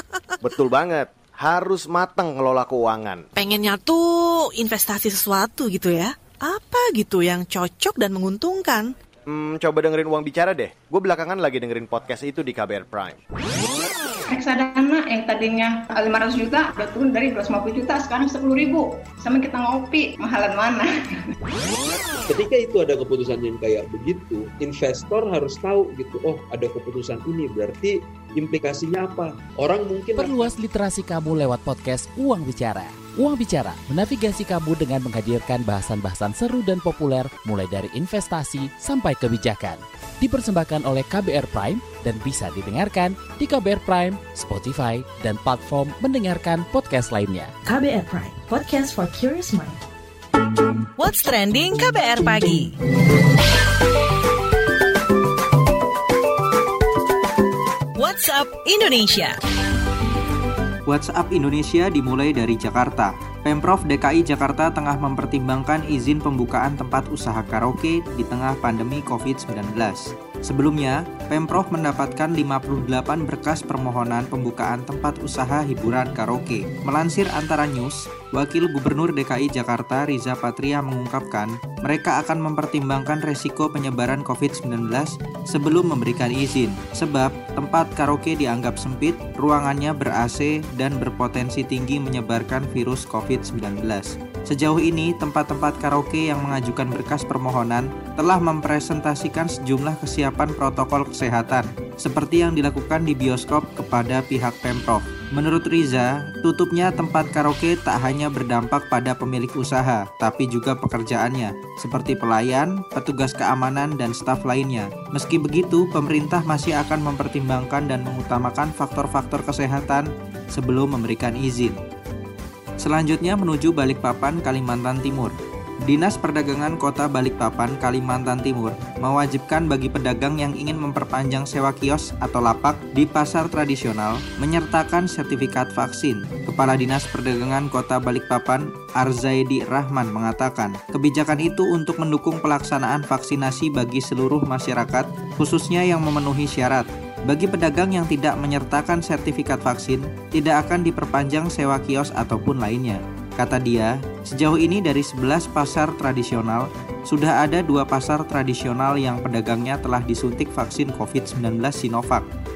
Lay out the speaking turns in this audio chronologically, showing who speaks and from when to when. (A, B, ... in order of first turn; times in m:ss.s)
0:00.4-0:03.3 A
0:03.4-0:08.9 B
0:09.3-0:13.1 A
0:14.3-0:20.9 C
0:22.3-0:30.5 D
0:30.2-0:47.5 E
0:47.7-0:49.6 F
0:51.0-0:52.7 F
0:58.0-0:59.4 F
1:00.9-2:01.8 G
2:02.8-2:42.3 G